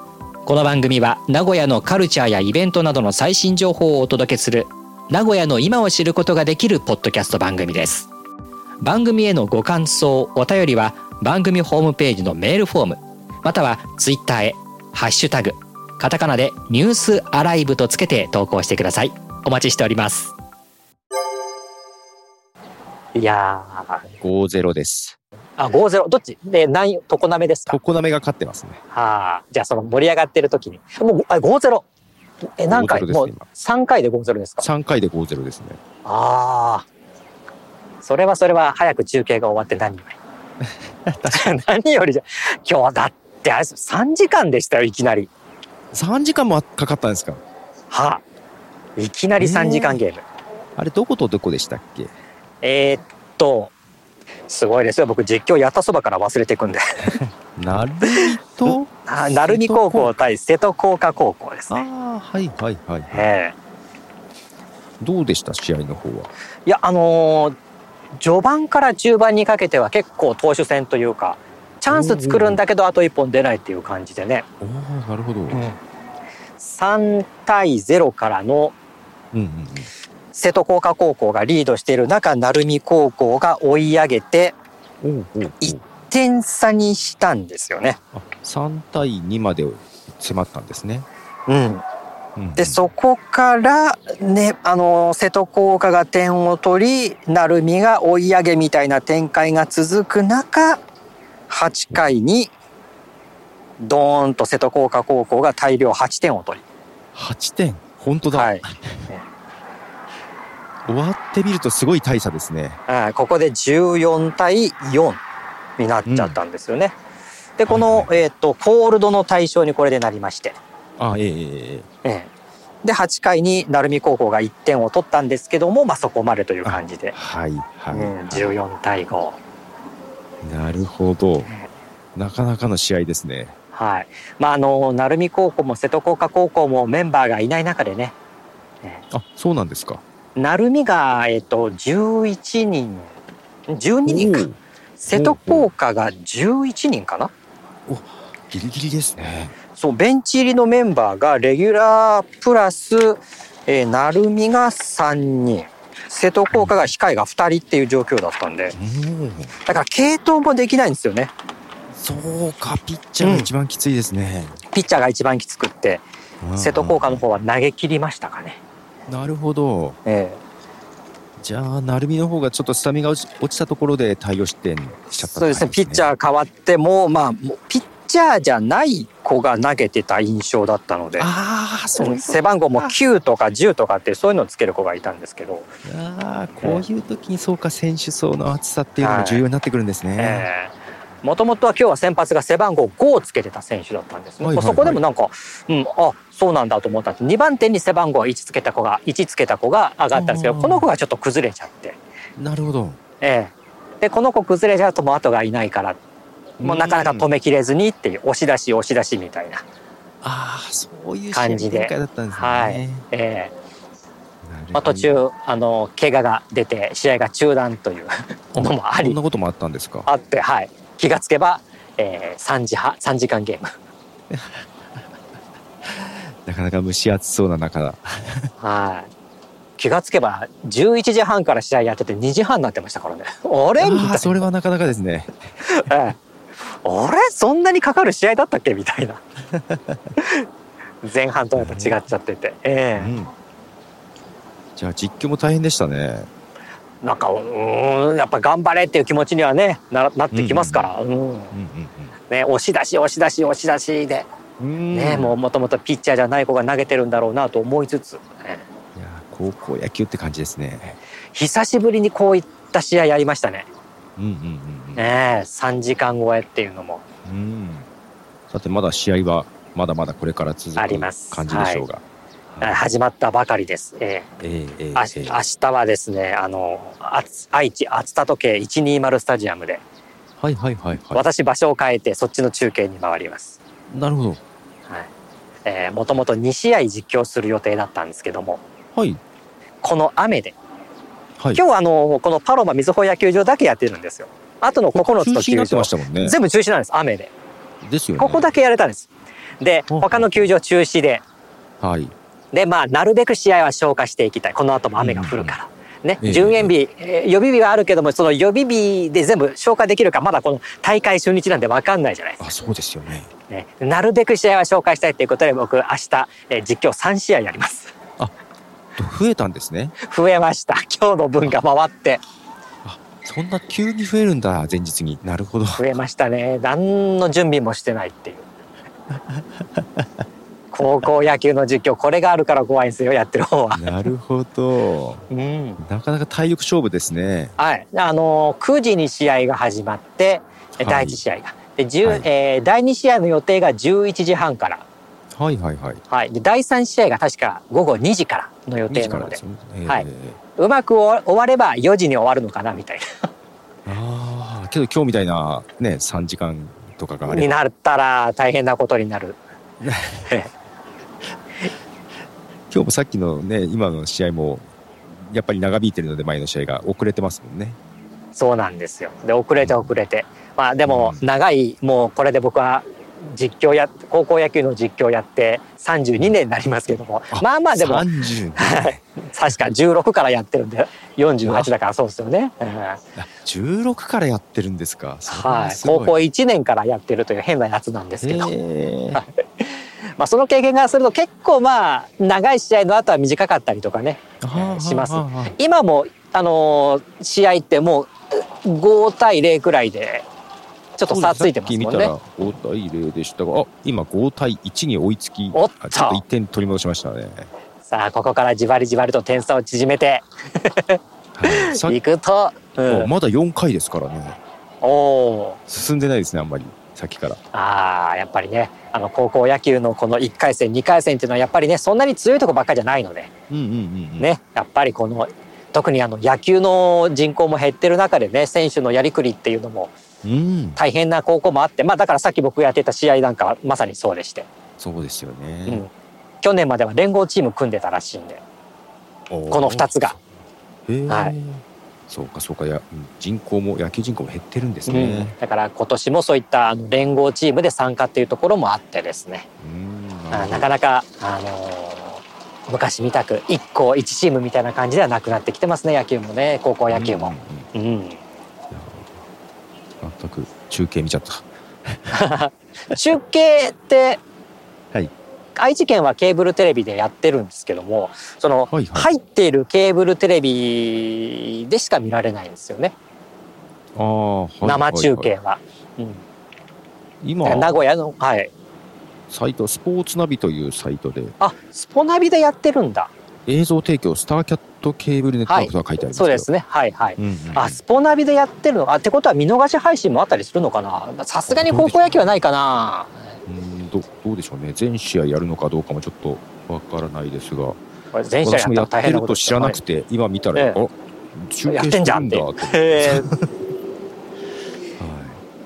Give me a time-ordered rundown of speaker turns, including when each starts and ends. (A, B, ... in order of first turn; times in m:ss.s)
0:00.4-0:08.1 A
0:08.8-0:20.3 A
0:23.1-0:24.0 A
0:24.2-0:25.2 B
0:25.6-0:27.8 A
0:27.7-0:28.8 B
0:28.9-0:31.8 A
0:32.6-0:34.6 A
0:32.7-0:33.4 B
0:34.6-0:35.8 B
0:36.0-0:36.9 A
0:38.0-0:40.2 A
0:41.0-0:41.5 B
0:41.3-0:45.3 A
0:45.9-0:47.4 B
0:47.9-0:48.2 A
0:49.0-0:50.2 A
0:49.4-0:50.0 B
0:50.8-0:52.1 B
0:52.6-0:53.7 A
0:54.5-0:57.2 A
0:57.6-1:00.1 B
0:59.0-1:01.8 A
1:01.7-1:03.3 B
1:03.1-1:03.5 A
1:05.0-1:06.3 B
1:06.6-1:07.6 A
1:08.1-1:14.4 A
1:11.9-1:12.6 B
1:14.6-1:15.7 B
1:16.6-1:18.7 A
1:19.3-1:19.9 B
1:20.3-1:24.5 A
1:25.0-1:25.8 B
1:25.6-1:28.0 A
1:28.1-1:31.1 B
1:31.5-1:31.8 A
1:32.4-1:32.8 B
1:32.6-1:40.8 A
1:41.5-1:42.5 A
1:43.8-1:46.6 A
1:47.1-1:49.0 B
1:48.3-1:49.2 A
1:50.9-1:52.8 B
1:52.9-1:55.2 A
1:55.8-1:56.9 A
1:56.1-1:56.4 B
1:57.6-2:00.6 A
1:57.7-1:58.1 B
2:01.0-2:01.9 B
2:02.0-2:02.3 A
2:02.8-2:07.1 A
2:06.6-2:08.5 B
2:07.9-2:09.4 A
2:10.4-2:11.5 B
2:12.2-2:13.5 B
2:13.7-2:18.1 A
2:19.1-2:20.0 B
2:20.4-2:23.1 A
2:23.7-2:24.4 A
2:24.1-2:24.6 B
2:25.0-2:27.3 A
2:25.1-2:25.7 B
2:27.9-2:29.5 B
2:29.8-2:38.8 A
2:38.7-2:39.5 B
2:39.6-2:41.3 A
2:41.9-2:44.6 B
2:43.2-2:43.5 A
2:44.7-2:46.0 A
2:46.4-2:47.2 B
2:46.6-2:48.6 A
2:49.1-2:50.0 B
2:50.0-2:50.4 A
2:51.4-2:56.1 B
2:55.1-3:01.3 A
3:01.2-3:03.0 B
3:02.0-3:05.7 A
3:05.8-3:10.5 B
3:06.6-3:06.8 A
3:09.0-3:09.4 A
3:10.2-3:22.0 A
3:14.4-3:15.0 B
3:20.1-3:20.9 B
3:22.4-3:23.0 B
3:23.2-3:26.0 A
3:26.6-3:27.3 B
3:26.6-3:29.6 A
3:30.2-3:33.0 B
3:31.3-3:33.5 A
3:34.4-3:35.2 B
3:34.7-3:39.2 A
3:38.6-3:40.1 B
3:40.0-3:43.7 A
3:44.3-3:44.6 B
3:45.8-3:48.5 B
3:48.6-3:49.1 A
3:49.8-3:54.4 A
3:53.8-3:55.4 B
3:55.6-3:56.2 A
3:56.8-3:59.2 A
3:59.7-4:00.0 B
4:00.2-4:00.4 A
4:01.0-4:03.1 A
4:01.6-4:02.0 B
4:03.0-4:03.3 B
4:04.8-4:06.3 B
4:07.0-4:11.5 A
4:10.3-4:10.9 B
4:11.5-4:12.1 B
4:12.3-4:14.2 A
4:14.6-4:15.4 B
4:14.9-4:18.6 A
4:18.9-4:21.0 B
4:21.3-4:23.7 A
4:24.2-4:25.0 B
4:25.0-4:27.0 A
4:27.2-4:27.9 B
4:28.5-4:32.8 B
4:30.8-4:31.8 A
4:32.6-4:34.3 A
4:34.4-4:35.4 B
4:34.9-4:39.8 A
4:40.4-4:41.2 B
4:41.1-4:43.6 A
4:43.9-4:44.4 B
4:45.6-4:48.6 A
4:48.9-4:49.2 B
4:49.8-4:50.6 A
4:51.5-4:57.3 A
4:54.9-4:56.4 B
4:57.8-4:58.5 B
4:58.2-4:59.1 A
4:59.6-5:01.2 A
4:59.9-5:00.5 B
5:01.8-5:02.1 B
5:02.5-5:12.5 A
5:05.0-5:05.6 B
5:06.2-5:06.7 B
5:12.4-5:13.3 B
5:13.5-5:17.9 A
5:19.0-5:19.9 B
5:20.0-5:22.2 A
5:22.8-5:25.8 B
5:25.8-5:28.4 A
5:29.3-5:30.1 B
5:30.7-5:34.0 A
5:33.7-5:35.3 B
5:35.3-5:35.8 A
5:35.8-5:37.6 B
5:37.6-5:44.8 A
5:40.8-5:41.2 B
5:45.4-5:46.0 B
5:46.1-5:53.1 A
5:48.9-5:50.4 B
5:53.8-5:57.5 B
5:57.2-5:59.4 A
5:59.8-6:00.2 B
6:02.7-6:07.8 B
6:08.3-6:18.0 A
6:09.6-6:09.9 B
6:10.9-6:11.2 B
6:17.3-6:19.0 B
6:18.6-6:23.0 A
6:23.2-6:26.2 B
6:25.3-6:28.5 A
6:28.2-6:29.2 B
6:29.1-6:40.3 A
6:34.4-6:35.5 B
6:41.0-6:42.1 A
6:41.1-6:47.5 B
6:45.5-6:46.2 A
6:47.8-6:53.1 A
6:51.4-6:52.0 B
6:52.9-6:54.4 B
6:54.8-6:55.6 A
6:55.7-6:57.4 B
6:57.5-7:03.3 A
7:03.5-7:04.3 B
7:04.2-7:09.9 A
7:10.2-7:10.8 B
7:10.8-7:14.5 A
7:14.8-7:15.8 B
7:16.4-7:18.4 A
7:19.3-7:20.2 B
7:19.5-7:20.2 A
7:20.9-7:25.3 B
7:21.1-7:21.3 A
7:24.8-7:29.5 A
7:29.6-7:30.7 B
7:30.3-7:38.2 A
7:36.9-7:37.7 B
7:38.7-7:39.1 B
7:40.0-7:42.2 B
7:42.1-7:44.2 A
7:45.6-7:52.9 A
7:48.7-7:49.1 B
7:53.9-7:55.3 B
7:54.6-7:56.2 A
7:57.2-7:57.8 B
7:57.4-7:58.5 A
7:59.3-8:01.4 B
8:01.4-8:03.1 A
8:03.5-8:06.5 B
8:05.5-8:13.2 A
8:07.2-8:07.8 B
8:11.5-8:12.3 B
8:13.4-8:17.8 B
8:18.1-8:19.8 A
8:18.4-8:23.4 B
8:21.7-8:23.3 A
8:25.0-8:25.4 B